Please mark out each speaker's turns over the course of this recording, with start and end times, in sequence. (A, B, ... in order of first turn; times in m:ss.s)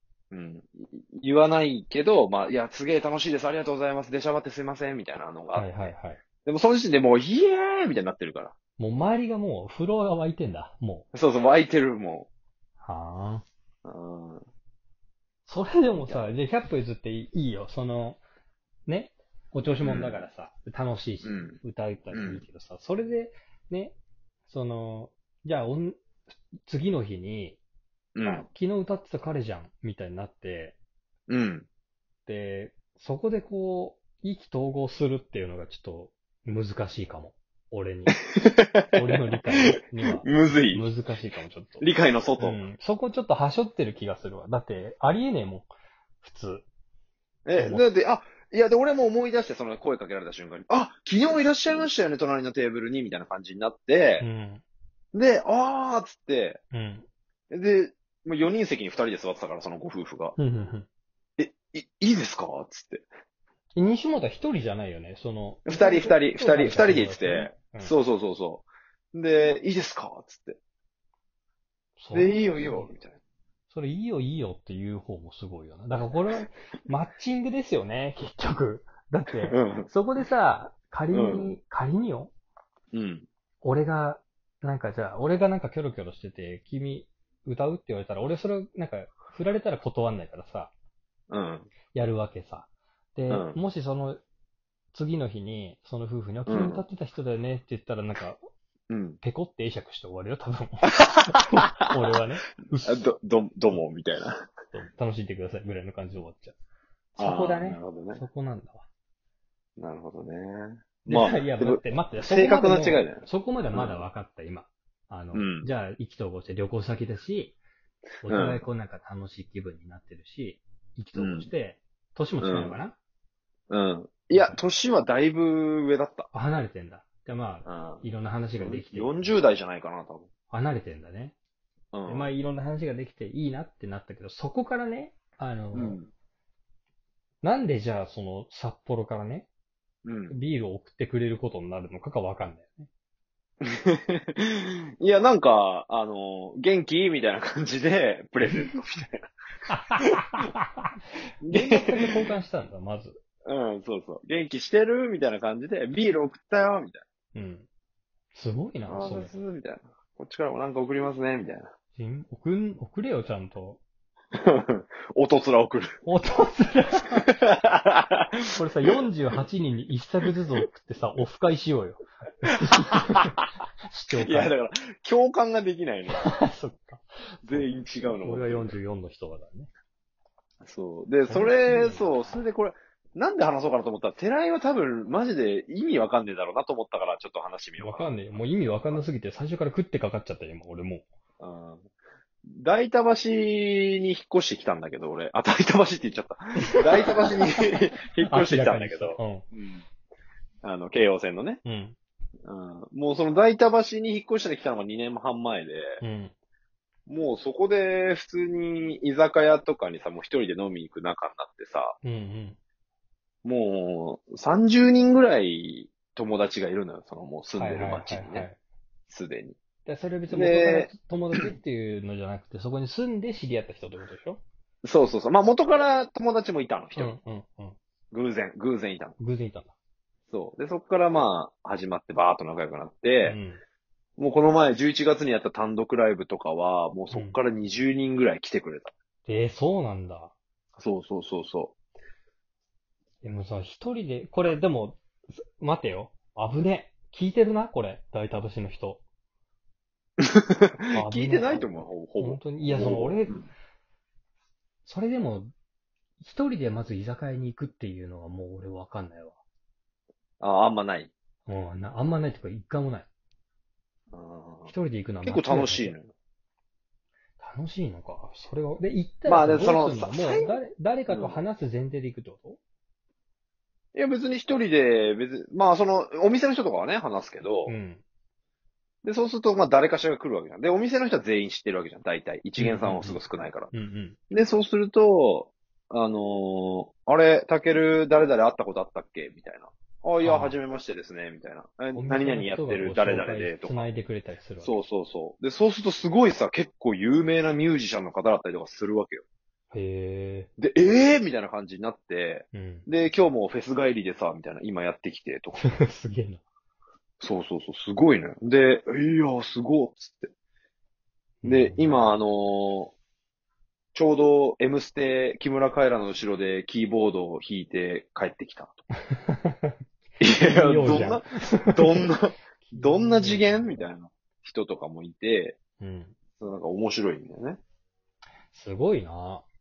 0:00.3-0:05.9 A
0:05.5-0:06.2 B
0:06.4-0:08.5 A
0:08.8-0:11.1 B
0:11.1-0:12.3 A
0:12.8-0:13.4 B
0:13.8-0:14.4 A
0:15.4-0:18.2 B
0:18.8-0:24.0 B
0:19.8-0:20.3 A
0:21.2-0:21.6 A
0:22.1-0:22.4 A
0:24.5-0:26.0 B
0:26.6-0:27.6 B
0:28.2-0:28.4 A
0:28.2-0:30.8 B
0:31.3-0:31.7 A
0:32.3-0:38.2 B
0:38.4-0:39.0 A
0:38.9-0:41.9 B
0:39.6-0:40.9 A
0:41.8-0:42.6 A
0:42.4-0:46.6 B
0:47.4-0:54.2 A
0:47.6-0:47.8 B
0:54.2-0:54.6 B
0:55.1-0:56.6 A
0:56.7-0:57.0 B
0:57.5-1:00.4 A
1:00.4-1:00.9 B
1:01.4-1:03.0 A
1:03.8-1:07.9 B
1:05.6-1:10.6 A
1:12.0-1:12.9 B
1:12.1-1:13.2 A
1:13.7-1:22.3 B
1:19.5-1:19.9 A
1:21.1-1:21.5 A
1:22.9-1:23.3 A
1:23.6-1:30.7 B
1:31.3-1:31.7 A
1:31.9-1:34.2 B
1:33.3-1:33.6 A
1:34.9-1:38.4 B
1:36.5-1:36.8 A
1:38.9-1:39.2 A
1:39.2-1:43.1 B
1:42.8-1:44.5 A
1:44.7-1:46.5 B
1:47.2-1:48.8 B
1:47.2-1:48.2 A
1:49.8-1:54.0 A
1:51.1-1:57.6 B
1:55.3-1:55.7 A
1:58.2-2:03.0 B
1:58.2-1:58.6 A
2:01.1-2:01.5 A
2:02.4-2:02.8 A
2:03.7-2:06.3 A
2:04.3-2:04.6 B
2:06.3-2:09.3 B
2:07.6-2:08.0 A
2:08.6-2:10.3 A
2:10.5-2:11.4 B
2:11.9-2:12.3 A
2:12.1-2:16.0 B
2:15.7-2:16.1 A
2:17.4-2:19.5 B
2:20.0-2:20.4 A
2:20.3-2:22.9 B
2:23.6-2:29.2 A
2:29.7-2:30.9 B
2:31.4-2:32.3 A
2:31.5-2:33.2 B
2:33.4-2:37.0 A
2:37.3-2:37.7 B
2:38.3-2:39.3 B
2:38.9-2:41.7 A
2:41.9-2:43.8 B
2:44.3-2:45.9 A
2:46.0-2:47.3 B
2:47.4-2:48.5 A
2:48.5-2:54.5 B
2:52.9-2:53.2 A
2:54.1-2:56.3 A
2:56.1-2:59.7 B
2:57.4-2:58.7 A
3:00.6-3:09.0 A
3:01.2-3:02.4 B
3:07.8-3:11.1 B
3:11.4-3:11.8 A
3:12.4-3:19.8 A
3:17.1-3:17.6 B
3:18.2-3:19.4 B
3:20.6-3:21.6 A
3:21.6-3:22.0 B
3:22.4-3:26.0 A
3:26.0-3:26.3 B
3:27.1-3:32.0 A
3:32.0-3:32.6 B
3:33.4-3:38.5 A
3:37.6-3:38.6 B
3:39.1-3:39.6 A
3:39.8-3:44.4 B
3:40.3-3:40.9 A
3:44.8-3:47.1 A
3:47.0-3:47.8 B
3:48.1-3:49.1 A
3:49.2-3:49.7 B
3:50.3-3:53.4 A
3:53.2-3:53.6 B
3:54.2-3:58.9 A
3:57.1-3:57.4 B
3:59.2-4:00.3 B
4:00.8-4:01.7 A
4:03.2-4:09.0 B
4:10.2-4:13.4 A
4:10.9-4:13.4 B
4:14.8-4:15.5 B
4:16.2-4:19.4 B
4:20.4-4:21.1 A
4:21.5-4:23.1 B
4:24.1-4:24.7 A
4:24.7-4:25.9 B
4:25.2-4:26.1 A
4:27.4-4:32.6 B
4:29.2-4:31.4 A
4:33.9-4:37.7 A
4:37.7-4:38.0 B
4:39.0-4:43.7 A
4:42.6-4:44.2 B
4:44.3-4:53.9 A
4:50.2-4:50.6 B
4:51.9-4:54.7 B
4:54.6-4:59.2 A
4:59.7-5:00.5 B
5:00.6-5:05.6 A
5:02.5-5:02.9 B
5:05.6-5:06.4 B
5:07.2-5:10.3 A
5:11.4-5:12.1 B
5:11.4-5:12.9 A
5:13.9-5:18.8 A
5:19.0-5:19.8 B
5:20.2-5:25.6 A
5:20.3-5:22.0 B
5:22.6-5:23.9 B
5:25.8-5:26.2 B
5:26.4-5:27.6 A
5:28.5-5:29.4 B